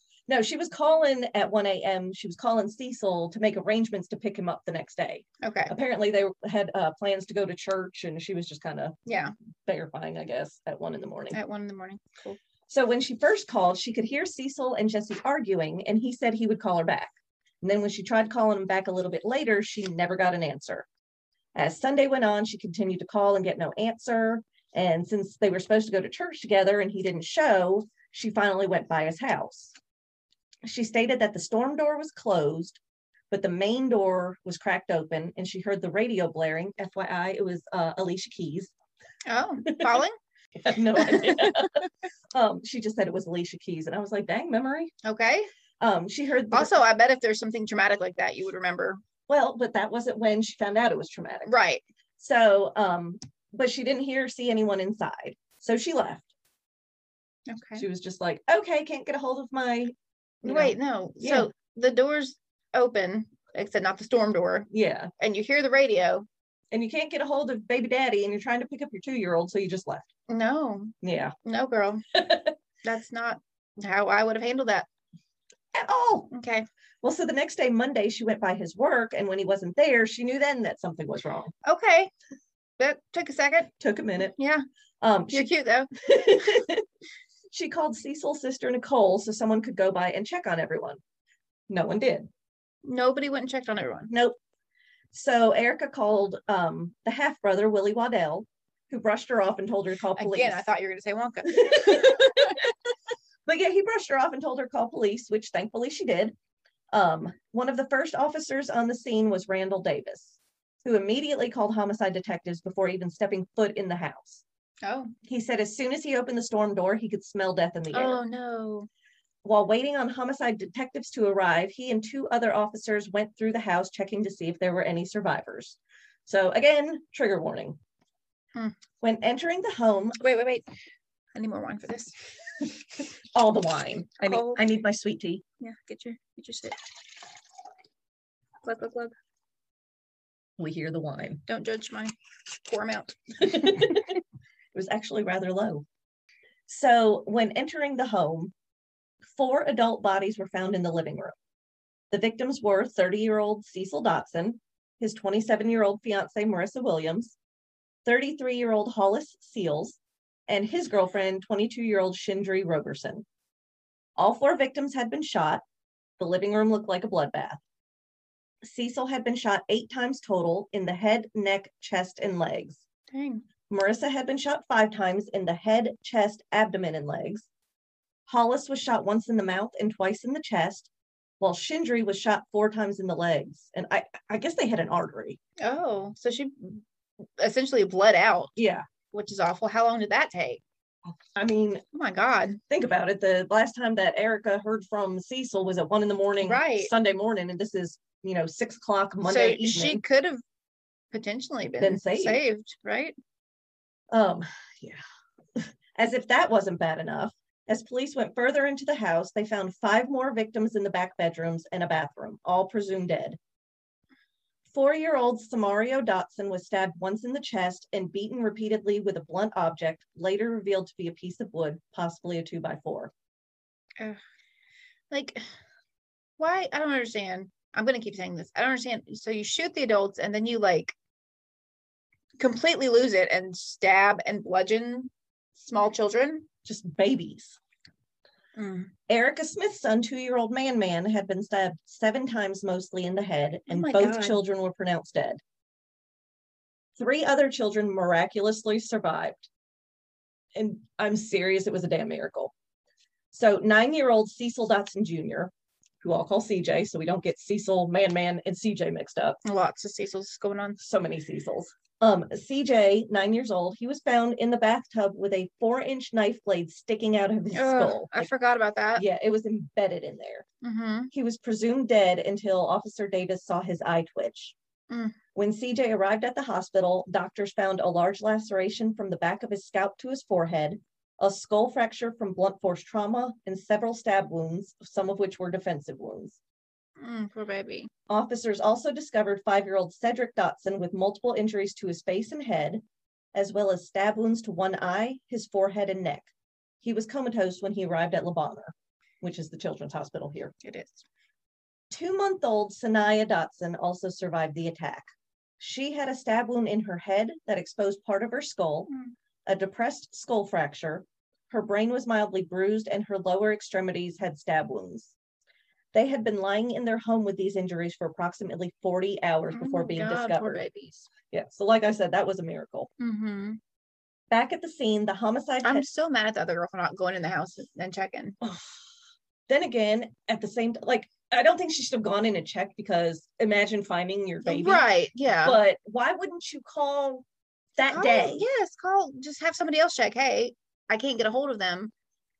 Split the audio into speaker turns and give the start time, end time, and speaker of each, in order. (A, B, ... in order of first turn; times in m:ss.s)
0:00.3-0:09.0 A
0:05.4-0:05.7 B
0:09.1-0:09.3 B
0:09.7-0:11.4 A
0:11.3-0:12.4 B
0:12.7-0:20.9 A
0:21.6-0:29.7 A
0:30.6-0:32.8 A
0:33.3-0:38.7 A
0:39.3-0:40.2 B
0:39.7-0:40.0 A
0:40.6-0:44.9 A
0:41.0-0:41.5 B
0:45.0-0:45.5 B
0:45.8-0:46.7 A
0:46.5-0:49.0 B
0:49.3-0:51.5 A
0:51.5-0:51.8 B
0:52.2-0:56.3 A
0:57.5-0:57.9 B
0:57.8-1:01.5 A
1:00.4-1:06.3 B
1:04.7-1:05.1 A
1:06.7-1:10.1 A
1:10.3-1:12.1 B
1:11.0-1:11.4 A
1:12.1-1:12.5 A
1:12.8-1:14.9 B
1:15.7-1:16.3 A
1:16.3-1:16.7 B
1:17.0-1:21.5 A
1:21.6-1:22.1 B
1:22.8-1:23.7 B
1:23.8-1:24.4 A
1:24.2-1:24.6 B
1:25.0-1:26.8 A
1:25.3-1:26.5 B
1:27.5-1:31.0 A
1:31.7-1:32.3 A
1:32.8-1:34.1 B
1:34.1-1:34.4 A
1:35.1-1:40.6 A
1:40.2-1:42.6 B
1:41.5-1:42.7 A
1:43.5-1:46.4 A
1:46.9-1:54.4 A
1:54.8-1:55.1 B
1:55.2-1:58.2 A
1:57.9-1:58.9 B
1:59.4-2:07.8 A
2:09.0-2:10.2 A
2:10.2-2:10.7 B
2:11.4-2:12.2 B
2:13.3-2:15.4 A
2:14.2-2:14.7 B
2:15.6-2:16.8 B
2:18.6-2:19.1 B
2:20.6-2:21.4 A
2:21.5-2:22.1 B
2:22.6-2:24.0 B
2:23.4-2:24.2 A
2:24.7-2:25.9 A
2:26.7-2:28.5 A
2:29.3-2:31.4 A
2:32.1-2:37.4 A
2:38.0-2:43.2 A
2:44.2-2:45.6 A
2:46.2-2:47.6 A
2:48.6-2:52.8 A
2:53.1-2:53.4 B
2:53.7-2:57.5 A
2:58.3-3:00.9 A
3:01.4-3:05.4 A
3:05.6-3:06.8 B
3:07.4-3:08.5 B
3:08.6-3:08.9 A
3:09.1-3:10.6 B
3:11.1-3:11.8 A
3:11.9-3:12.6 B
3:12.7-3:20.0 A
3:16.4-3:16.9 B
3:19.2-3:20.4 B
3:21.1-3:23.2 B
3:21.8-3:22.4 A
3:24.1-3:25.0 A
3:25.6-3:33.4 A
3:34.7-3:43.1 A
3:45.1-3:45.5 B
3:46.4-3:51.0 B
3:52.4-3:56.5 B
3:56.6-3:57.6 A
3:58.6-3:58.9 B
3:59.1-4:05.4 A
4:03.7-4:04.4 B
4:07.0-4:09.5 A
4:10.6-4:12.5 A
4:13.3-4:15.5 A
4:16.0-4:19.4 A
4:19.4-4:20.8 B
4:20.8-4:28.3 A
4:27.5-4:29.0 B
4:29.0-4:30.5 A
4:30.6-4:31.1 B
4:31.1-4:34.6 A
4:34.9-4:35.2 B
4:35.4-4:46.4 A
4:47.0-4:47.9 B
4:48.1-4:52.8 A
4:53.3-4:56.3 A
4:56.8-5:00.5 A
5:00.6-5:01.0 B
5:01.9-5:05.1 A
5:05.6-5:08.9 A
5:09.5-5:15.1 A
5:15.9-5:20.6 A
5:19.5-5:21.1 B
5:21.3-5:22.9 A
5:23.0-5:23.6 B
5:24.3-5:25.8 A
5:25.6-5:28.4 B
5:28.4-5:28.8 A
5:29.5-5:34.9 A
5:34.4-5:35.6 B
5:35.4-5:38.5 A
5:37.9-5:41.9 B